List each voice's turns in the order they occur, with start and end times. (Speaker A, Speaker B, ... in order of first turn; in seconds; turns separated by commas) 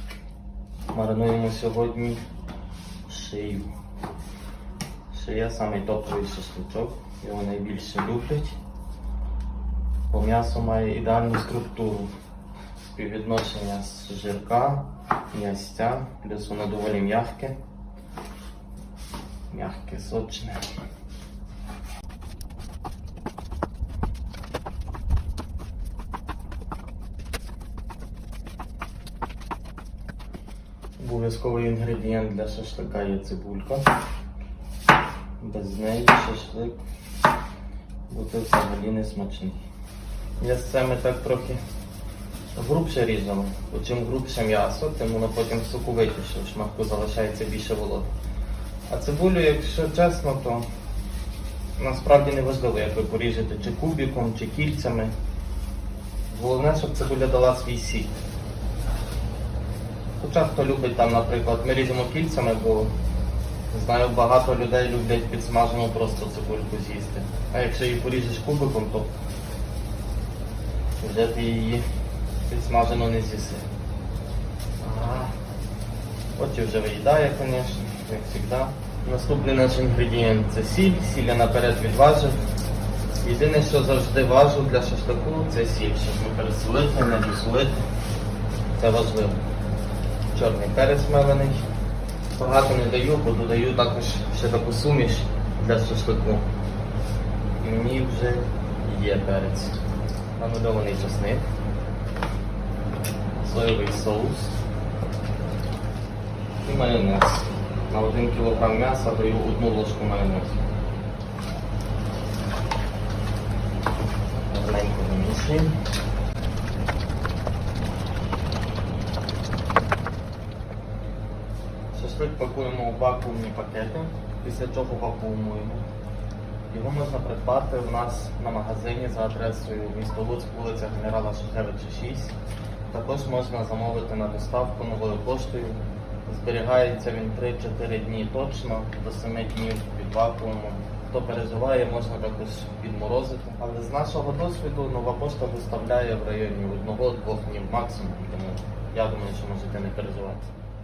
Speaker A: 0.9-2.2, Speaker A: 3.1-3.7, Speaker A: 5.1-8.6, Speaker A: 10.1-12.1, Speaker A: 12.9-17.6, Speaker A: 19.5-20.6, Speaker A: 31.0-33.9, Speaker A: 35.4-36.8, Speaker A: 38.1-39.6, Speaker A: 40.4-41.6, Speaker A: 42.5-48.1, Speaker A: 48.9-50.7, Speaker A: 51.8-55.1, Speaker A: 56.3-58.2, Speaker A: 60.2-62.9, Speaker A: 63.7-69.1, Speaker A: 71.0-71.8, Speaker A: 72.5-73.7, Speaker A: 74.8-75.3, Speaker A: 76.4-82.4, Speaker A: 83.2-87.8, Speaker A: 88.8-89.4, Speaker A: 90.3-91.6, Speaker A: 92.4-96.5, Speaker A: 97.6-99.8, Speaker A: 100.4-101.5, Speaker A: 103.4-104.6, Speaker A: 106.6-110.6, Speaker A: 114.5-115.7, Speaker A: 121.9-125.8, Speaker A: 126.7-132.4, Speaker A: 132.9-150.5